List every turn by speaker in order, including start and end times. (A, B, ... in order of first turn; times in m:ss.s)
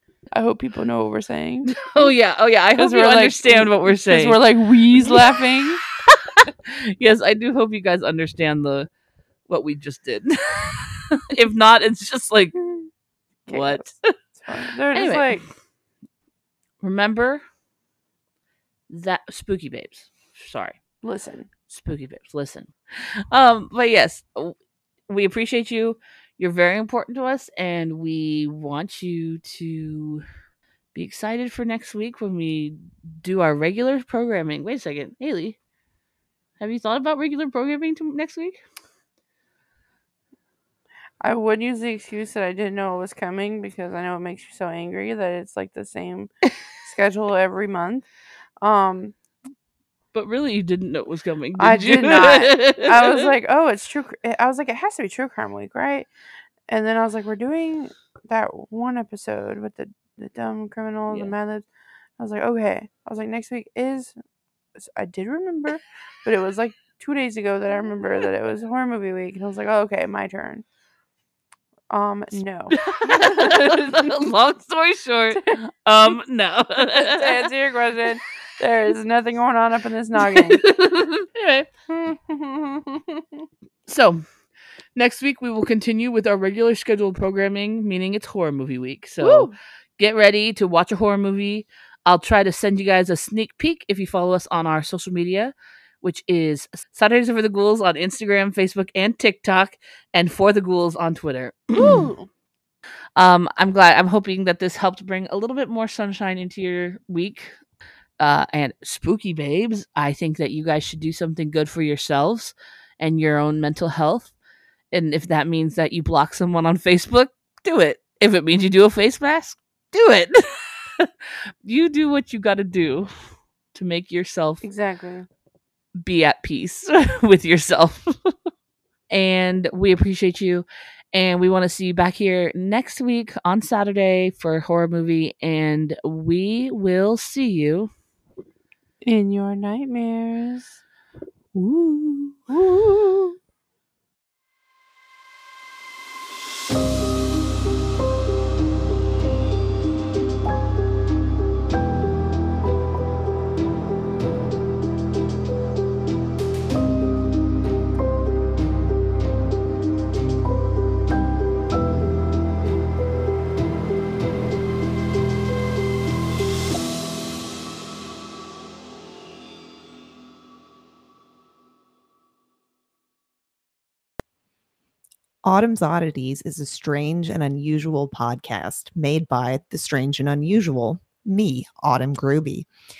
0:00.3-0:02.1 A
0:01.7-0:04.4 B
0:02.8-0:05.8 A
0:05.0-0:05.3 B
0:06.0-0:08.9 B
0:09.5-0:12.6 B
0:12.6-0:12.9 A
0:13.5-0:15.4 A
0:13.5-0:14.2 B
0:14.9-0:15.4 B
0:16.8-0:17.4 B
0:18.9-0:20.8 B
0:21.0-0:21.5 A
0:21.7-0:24.6 B
0:25.1-0:30.2 B
0:30.9-0:35.6 B
0:36.6-0:38.6 B
0:41.2-0:48.0 A
0:48.6-0:49.1 A
0:50.1-0:53.3 B
0:51.6-0:56.1 A
0:56.7-1:01.6 A
1:02.2-1:04.2 A
1:04.8-1:10.6 A
1:11.9-1:13.9 A
1:12.8-1:17.5 B
1:16.8-1:20.7 A
1:20.3-1:21.7 B
1:21.9-1:23.2 A
1:23.9-1:24.2 B
1:25.0-1:42.1 B
1:29.2-1:29.5 A
1:41.8-1:42.3 A
1:43.2-1:47.6 B
1:48.2-1:54.3 B
1:54.9-2:01.1 B
2:01.6-2:03.1 B
2:03.7-2:04.6 B
2:04.6-2:05.3 A
2:06.0-2:08.3 B
2:09.1-2:17.9 B
2:19.0-2:20.8 A
2:21.6-2:23.3 B
2:55.4-3:02.7 C